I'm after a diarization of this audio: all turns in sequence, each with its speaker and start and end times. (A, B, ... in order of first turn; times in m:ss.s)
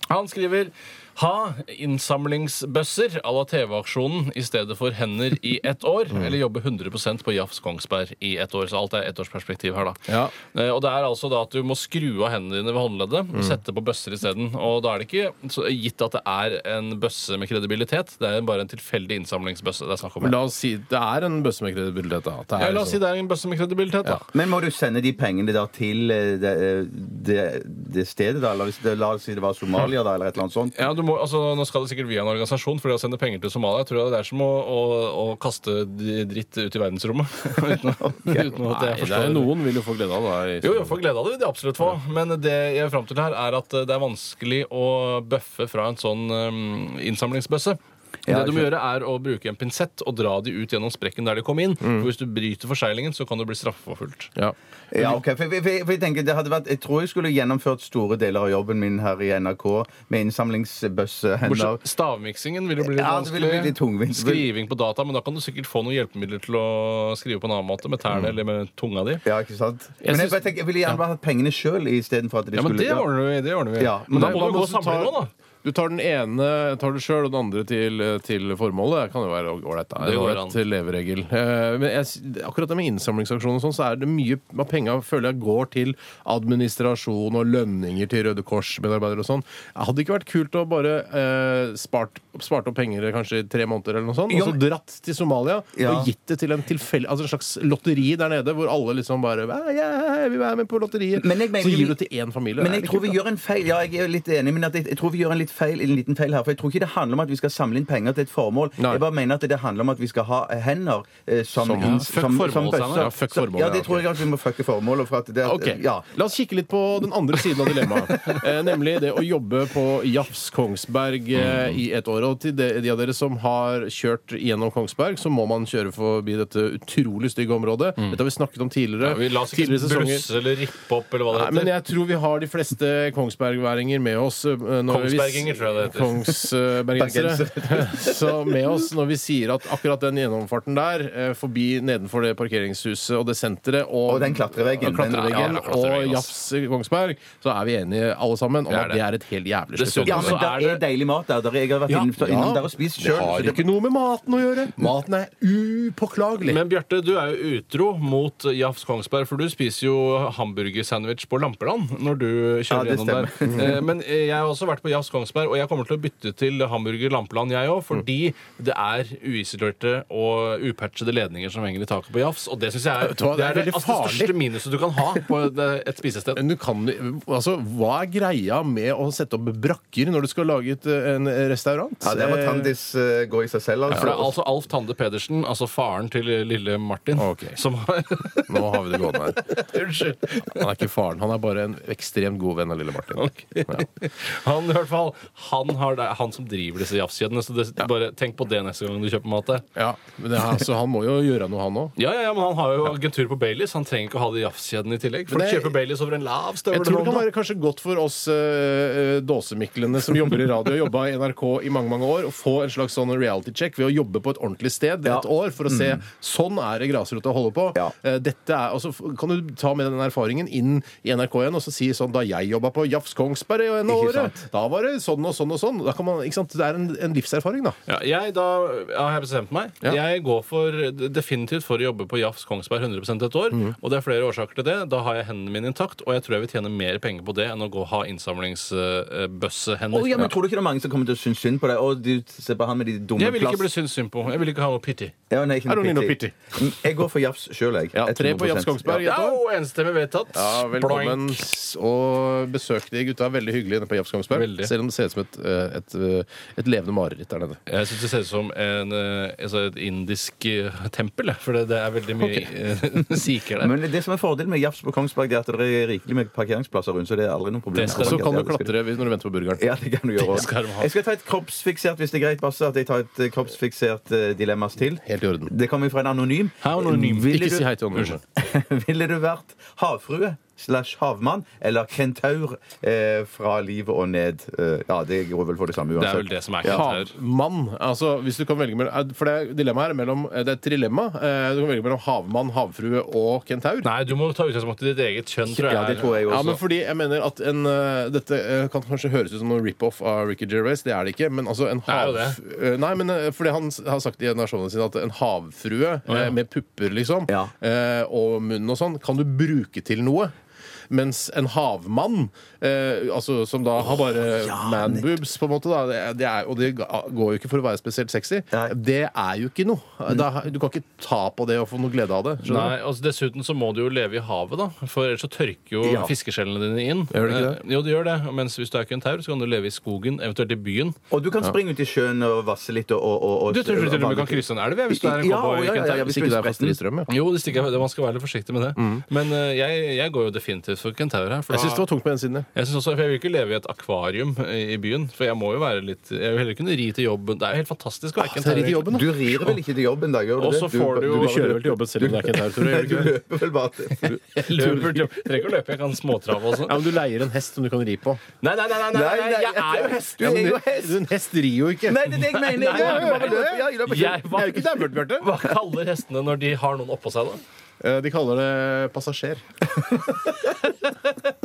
0:00.1-0:20.4 A
0:10.1-0:10.3 B
0:20.2-0:23.0 B
0:22.6-0:24.3 A
0:24.3-0:30.8 C
0:30.8-0:39.5 A
0:38.0-0:38.5 C
0:38.6-0:41.0 B
0:40.6-0:54.3 A
0:48.3-0:48.7 C
0:54.4-0:55.0 B
0:54.9-1:01.8 C
1:01.4-1:09.2 A
1:02.8-1:04.5 C
1:09.2-1:13.1 C
1:10.0-1:11.0 B
1:12.5-1:15.3 A
1:13.8-1:14.4 C
1:14.1-1:43.2 B
1:20.0-1:20.6 A
1:34.3-1:34.6 C
1:35.7-1:36.1 C
1:41.2-1:42.0 C
1:42.6-1:56.0 C
1:48.8-1:49.0 B
1:51.6-1:52.0 B
1:51.8-1:53.1 A
1:53.0-1:54.1 B
1:55.4-2:10.3 B
2:01.3-2:01.8 A
2:09.0-2:11.7 A
2:11.3-2:30.4 B
2:14.9-2:16.2 A
2:16.9-2:18.6 C
2:24.1-2:25.6 C
2:25.0-2:26.3 A
2:28.7-2:29.0 A
2:29.8-2:30.8 A
2:30.0-2:33.7 C
2:31.9-2:36.6 B
2:36.4-2:56.4 A
2:42.7-2:43.8 C
2:52.9-2:54.4 B
2:56.3-3:02.7 B
3:02.0-3:04.3 C
3:03.9-3:10.6 A
3:07.1-3:07.6 B
3:08.5-3:09.6 B
3:10.4-3:13.9 B
3:13.2-3:19.6 A
3:19.7-3:21.9 B
3:22.0-3:27.3 A
3:25.3-3:25.8 B
3:26.7-3:47.8 B
3:35.0-3:36.0 C
3:43.9-3:44.4 C
3:47.9-4:00.4 A
3:59.9-4:03.7 C
4:03.2-4:05.1 A
4:05.3-4:09.0 C
4:05.7-4:06.6 B
4:07.9-4:09.4 B
4:09.0-4:11.4 A
4:10.3-4:17.6 B
4:14.3-4:14.7 A
4:17.7-4:23.7 A
4:23.6-4:28.7 C
4:27.7-4:28.3 A
4:27.9-4:29.7 B
4:29.6-4:37.7 C
4:30.2-4:30.9 A
4:35.0-4:35.5 B
4:36.6-4:37.4 A
4:37.3-4:38.2 B
4:38.3-4:46.9 C
4:46.0-4:47.1 A
4:46.7-4:53.9 B
4:53.8-4:56.4 A
4:55.6-5:10.3 B
4:55.6-4:56.6 C
5:01.9-5:02.4 A
5:06.1-5:06.3 A
5:10.9-5:22.7 B
5:14.4-5:15.1 C
5:22.4-5:31.0 A
5:25.8-5:26.1 C
5:27.1-5:27.6 B
5:31.1-5:36.8 C
5:33.5-5:36.0 A
5:35.9-5:37.1 B
5:37.1-5:41.8 A
5:38.8-5:39.0 B
5:41.5-5:42.5 B
5:42.5-5:49.0 A
5:48.2-5:49.6 B
5:48.9-5:55.1 C
5:50.4-5:51.5 A
5:51.0-5:53.2 B
5:54.0-5:56.9 A
5:56.6-5:58.2 B
5:58.4-6:00.2 A
5:58.9-6:01.0 C
6:00.2-6:03.7 B
6:01.8-6:04.2 C
6:02.5-6:07.4 A
6:04.3-6:05.4 B
6:07.8-6:09.4 B
6:10.4-6:11.1 A